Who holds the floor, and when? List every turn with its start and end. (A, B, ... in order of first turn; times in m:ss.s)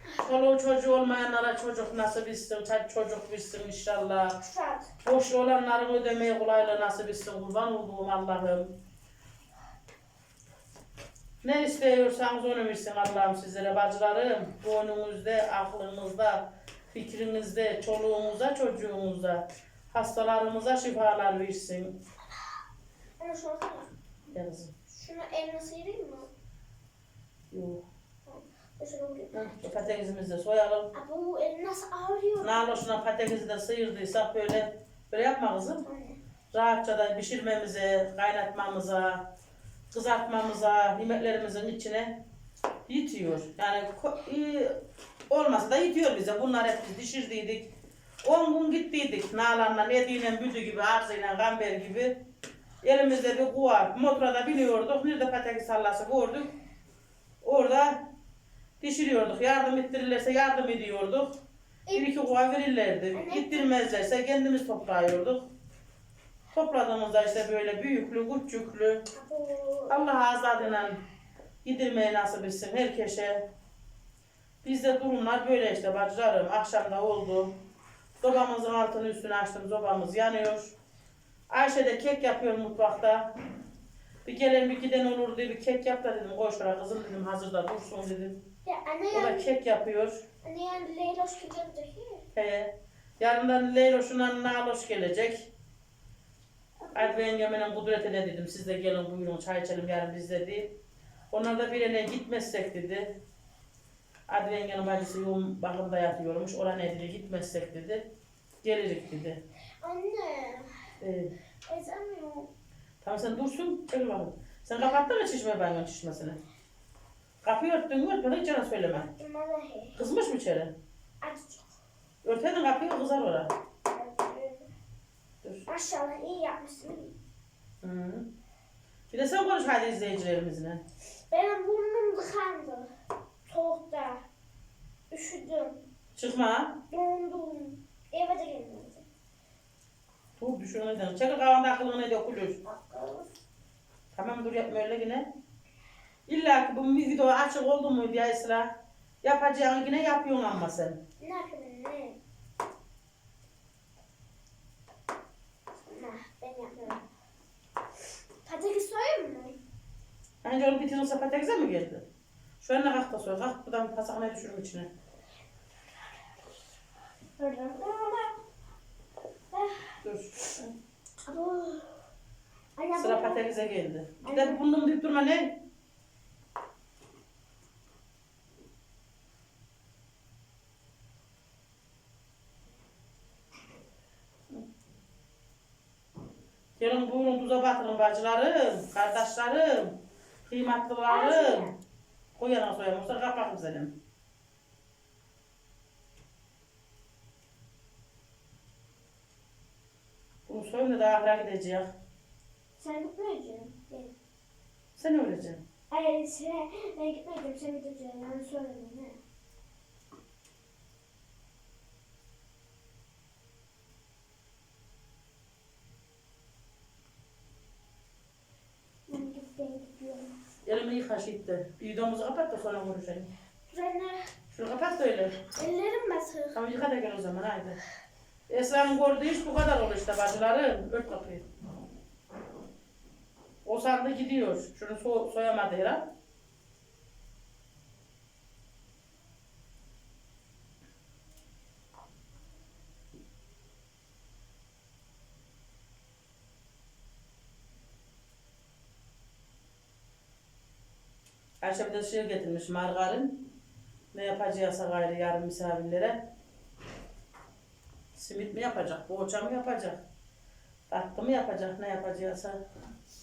0:00.2-0:04.4 A
0:04.4-0:04.9 B
0:05.0-0:08.8 A
0:11.4-0:22.0 A
0:23.2-0:23.9 B
0:24.3-0:24.7 A
0:24.9-0:26.3 B
0:27.5-0:27.8 A
0:28.2-0:29.5 B
0:29.3-0:30.9 A
0:30.9-0:32.8 B
0:32.4-0:35.8 A
0:35.8-0:36.2 B
0:36.5-0:39.3 A
0:39.9-0:42.2 A
0:42.9-0:44.8 A
0:45.3-0:47.7 A
0:48.2-0:52.2 A
0:52.8-0:56.5 A
0:57.4-0:58.1 A
0:58.8-1:01.4 A
1:01.9-1:05.5 A
1:03.1-1:03.7 B
1:06.5-1:09.1 A
1:09.1-1:10.0 B
1:09.9-1:11.0 A
1:11.6-1:13.5 A
1:14.6-1:17.6 A
1:18.2-1:20.7 A
1:21.5-1:23.3 A
1:24.2-1:28.5 A
1:28.6-1:29.5 B
1:29.1-1:30.2 A
1:30.4-1:32.2 B
1:32.3-1:35.5 A
1:36.8-1:37.1 B
1:36.9-1:40.7 A
1:41.3-1:43.2 A
1:44.3-1:48.1 A
1:48.6-1:49.4 A
1:49.8-1:50.8 B
1:51.0-1:51.3 A
1:51.6-1:52.5 B
1:53.0-1:56.4 A
1:57.4-1:59.1 A
1:58.9-2:00.0 B
2:00.0-2:00.8 A
2:01.2-2:01.6 B
2:02.2-2:03.5 A
2:03.9-2:04.7 B
2:05.7-2:07.2 B
2:07.8-2:08.3 A
2:09.1-2:10.8 A
2:11.3-2:12.9 B
2:13.5-2:14.2 B
2:15.1-2:15.8 B
2:16.2-2:16.8 A
2:16.9-2:19.0 B
2:20.4-2:22.6 A
2:22.6-2:23.3 B
2:24.1-2:25.3 A
2:26.3-2:31.0 A
2:31.2-2:32.2 B
2:35.8-2:37.0 B
2:38.4-2:39.6 B
2:40.4-2:42.0 A
2:42.6-2:44.9 A
2:47.4-2:48.3 B
2:49.5-2:49.9 B
2:50.0-2:50.7 A
2:51.2-2:51.9 B
2:52.8-2:53.4 B
2:53.0-2:55.6 A
2:54.2-2:54.6 B
3:06.8-3:11.7 A
3:11.1-3:11.7 B
3:12.4-3:14.0 A
3:20.5-3:21.9 A
3:22.8-3:24.1 B
3:25.0-3:25.6 A
3:25.9-3:29.2 B
3:39.1-3:40.3 B
3:40.6-3:43.3 A
3:43.7-3:44.3 B
3:44.5-3:45.4 A
3:45.5-3:46.6 B
3:46.5-3:47.8 A
3:48.5-3:51.5 A
3:53.6-3:56.1 A
4:11.6-4:13.5 A
4:14.1-4:16.2 A
4:18.2-4:20.0 A
4:20.9-4:22.6 A